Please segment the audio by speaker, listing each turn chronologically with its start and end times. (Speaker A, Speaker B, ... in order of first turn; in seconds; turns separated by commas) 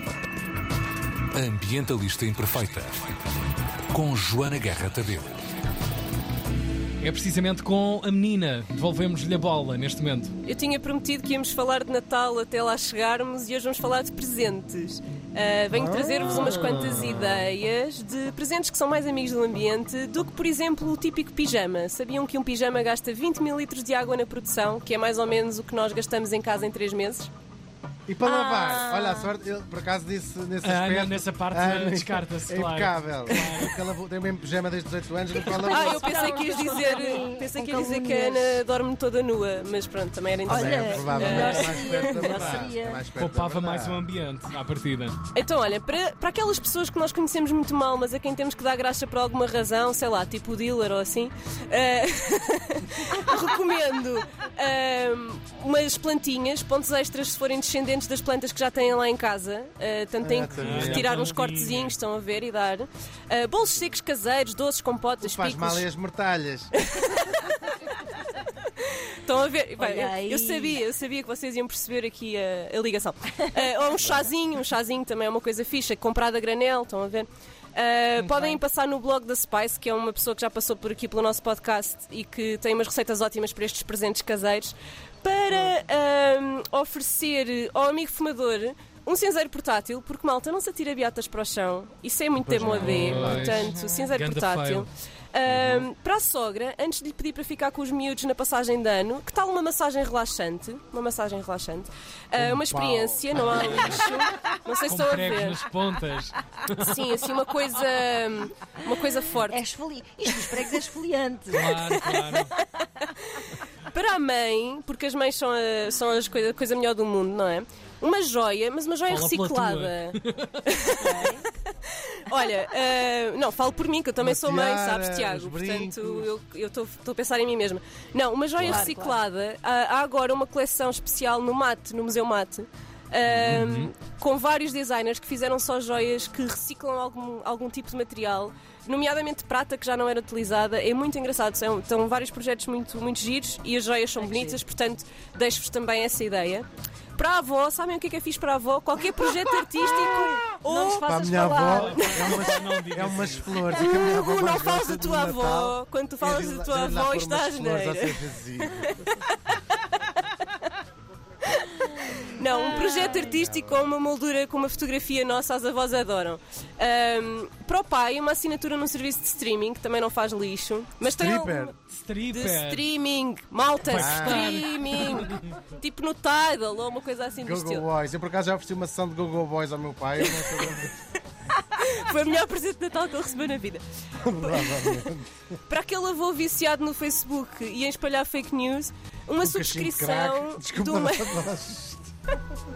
Speaker A: 1.4-3.1, Speaker A: 3.9-5.3, Speaker B: 7.0-10.3, Speaker C: 10.4-27.3, Speaker D: 15.7-16.6, Speaker B: 16.3-17.3, Speaker D: 28.1-36.2, Speaker E: 28.2-29.3, Speaker B: 30.6-33.8, Speaker C: 35.5-42.1, Speaker E: 35.5-38.6, Speaker E: 40.5-43.0, Speaker D: 40.5-44.0, Speaker B: 41.2-45.2, Speaker C: 45.3-65.9, Speaker D: 60.2-61.1, Speaker B: 60.5-62.0, Speaker D: 65.2-66.7, Speaker C: 66.8-68.0, Speaker C: 68.8-105.6, Speaker E: 69.8-70.8, Speaker E: 78.2-78.6, Speaker D: 92.4-93.5, Speaker B: 92.5-94.9, Speaker E: 92.6-94.1, Speaker D: 95.5-95.8, Speaker D: 102.4-103.5, Speaker B: 103.3-104.1, Speaker B: 104.8-107.0, Speaker C: 106.8-109.6, Speaker E: 108.9-111.9, Speaker B: 111.5-112.5, Speaker C: 111.9-112.4, Speaker C: 113.0-121.3, Speaker B: 119.1-120.7, Speaker E: 121.0-121.5, Speaker C: 122.1-152.6, Speaker D: 124.2-126.3, Speaker E: 128.6-129.2, Speaker B: 133.3-133.9, Speaker E: 144.2-144.6, Speaker D: 150.9-158.9, Speaker B: 151.7-153.6, Speaker C: 153.7-159.2, Speaker C: 161.5-171.7, Speaker E: 162.7-163.3, Speaker D: 163.3-163.8, Speaker D: 171.1-171.8, Speaker B: 171.9-172.8, Speaker C: 172.3-177.9, Speaker B: 173.9-175.4, Speaker D: 173.9-174.7, Speaker D: 177.4-180.9, Speaker C: 180.2-180.7, Speaker C: 181.6-183.8, Speaker D: 184.2-185.3, Speaker C: 184.4-185.1, Speaker C: 185.7-191.4, Speaker D: 189.4-192.1